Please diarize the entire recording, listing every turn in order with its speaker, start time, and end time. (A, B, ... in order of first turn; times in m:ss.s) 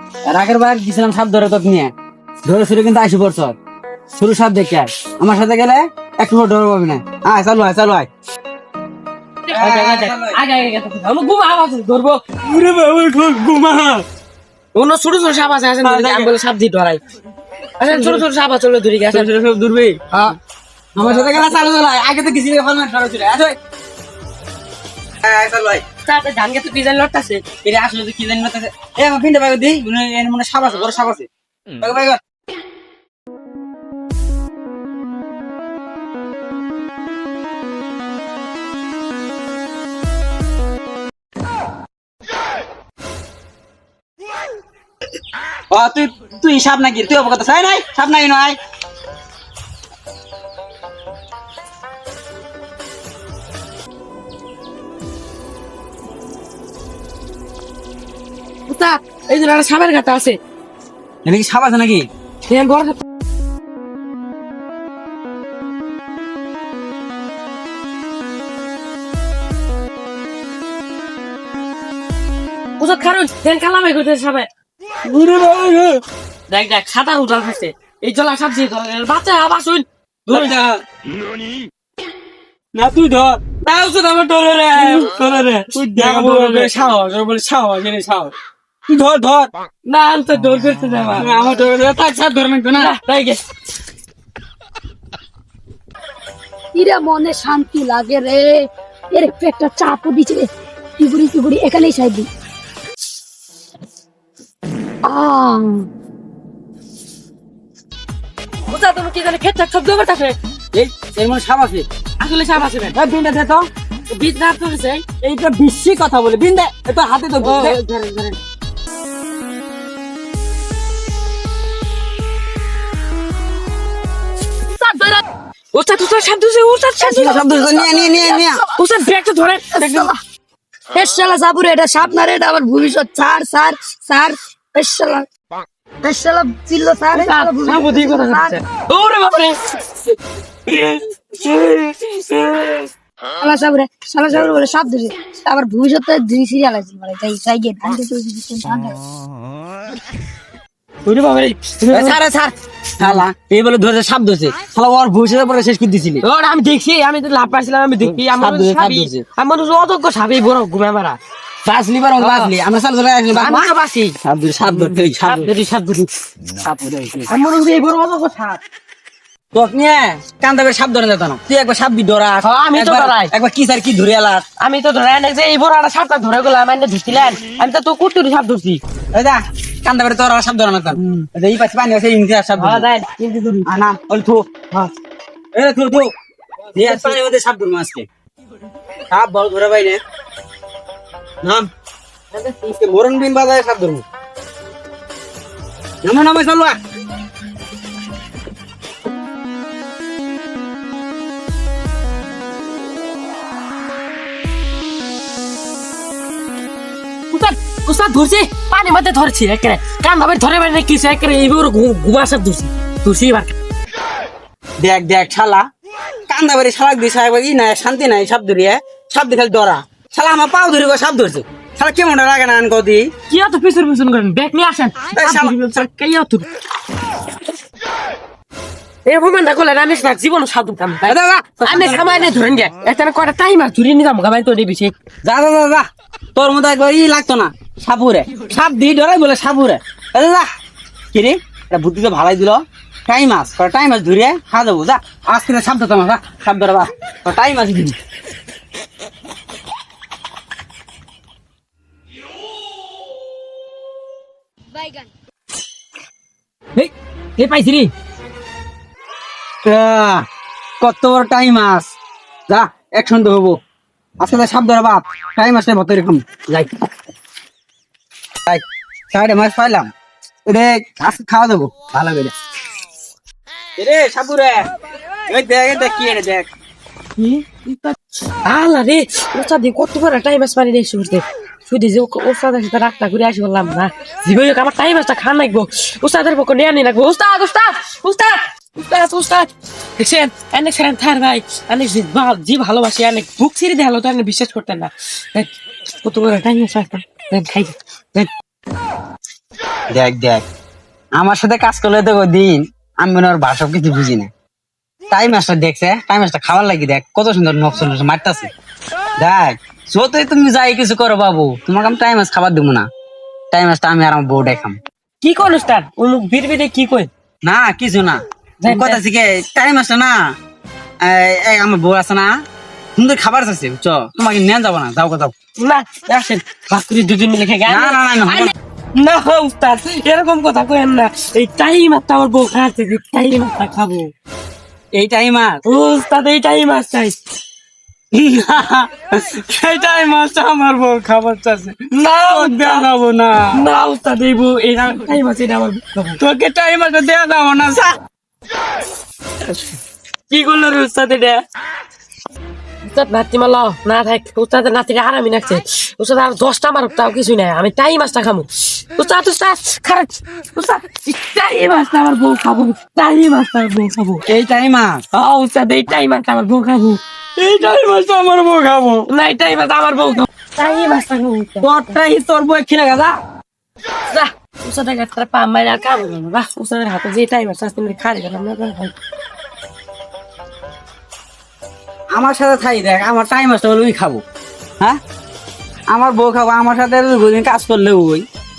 0:00.3-0:01.9 A
0:02.4-0:03.6 A
0:04.2-0:08.1 A
0:09.5-0:12.2 B
0:09.5-0:10.4 A
0:12.4-0:14.0 A
0:14.7-0:17.0 B
0:15.8-0:16.3 A
0:17.8-0:19.3 B
0:17.9-0:18.2 A
0:19.1-0:20.3 A
0:21.0-0:23.6 A
0:21.0-0:21.5 B
0:25.2-0:25.8 A
0:26.1-0:27.4 B
0:27.6-0:31.3 A
0:31.8-0:32.2 A
0:45.7-0:48.6 A
0:58.7-1:00.4 B
1:01.2-1:02.1 A
1:02.5-1:03.0 B
1:12.8-1:14.5 B
1:15.0-1:16.0 A
1:16.5-1:20.5 B
1:20.3-1:20.8 A
1:22.7-1:23.6 A
1:23.6-1:26.8 B
1:24.5-1:25.1 A
1:25.7-1:28.3 A
1:28.9-1:29.5 A
1:29.9-1:31.3 B
1:31.2-1:32.9 A
1:32.8-1:33.4 B
1:36.7-1:42.3 C
1:45.0-1:45.9 C
1:48.7-1:50.4 B
1:50.7-1:51.9 A
1:52.2-1:53.0 B
1:52.9-1:53.7 A
1:54.1-1:55.1 B
1:55.2-1:58.4 A
1:57.4-1:57.8 B
2:04.7-2:10.1 B
2:07.0-2:08.6 A
2:09.7-2:10.2 C
2:10.9-2:15.3 C
2:16.0-2:18.6 C
2:17.1-2:19.6 B
2:20.7-2:22.9 B
2:23.4-2:29.0 C
2:31.0-2:32.2 B
2:31.9-2:36.2 A
2:33.0-2:33.2 B
2:36.2-2:41.2 B
2:38.2-2:39.2 A
2:41.6-2:45.5 A
2:42.2-2:42.5 B
2:43.3-2:44.2 B
2:44.7-2:46.1 B
2:46.6-2:47.3 A
2:47.3-2:48.6 B
2:49.5-2:54.4 A
2:52.4-2:53.3 B
2:54.6-2:58.8 B
2:59.1-3:02.9 A
3:02.6-3:03.7 B
3:03.6-3:04.5 A
3:05.5-3:06.1 A
3:06.7-3:07.2 B
3:06.8-3:08.1 A
3:09.1-3:10.0 A
3:11.4-3:11.7 A
3:12.4-3:14.0 A
3:16.0-3:16.8 A
3:27.3-3:33.5 B
3:34.8-3:35.7 A
3:36.3-3:43.1 A
3:43.3-3:46.5 B
3:45.1-3:45.6 A
3:49.0-3:55.0 B
3:51.0-3:52.4 A
3:55.2-4:00.5 A
4:01.1-4:08.0 A
4:17.4-4:17.9 B
4:19.6-4:20.3 A
4:20.8-4:21.9 A
4:22.5-4:23.6 A
4:24.2-4:26.8 A
4:28.5-4:29.9 A
4:30.5-4:32.3 A
4:33.8-4:34.7 A
4:35.3-4:36.5 A
4:37.2-4:58.3 B
4:59.9-5:00.4 A
5:01.2-5:04.3 A
5:05.1-5:08.5 A
5:09.2-5:12.9 A
5:13.5-5:14.8 A
5:15.2-5:17.1 B
5:17.4-5:20.2 A
5:18.6-5:19.0 B
5:21.0-5:22.3 A
5:23.0-5:25.3 A
5:25.6-5:34.1 B
5:27.7-5:28.5 A
5:34.9-5:35.6 A
5:35.6-5:37.2 B
5:38.1-5:43.6 A
5:41.9-5:42.7 B
5:43.5-5:46.2 B
5:46.2-5:48.0 A
5:50.3-5:51.4 B
5:52.8-6:04.2 B
6:04.3-6:05.0 A
6:05.1-6:07.0 B
6:07.4-6:09.1 A
6:09.1-6:11.7 B
6:11.6-6:13.2 A
6:14.1-6:18.9 B
6:22.1-6:24.2 A
6:25.9-6:28.2 A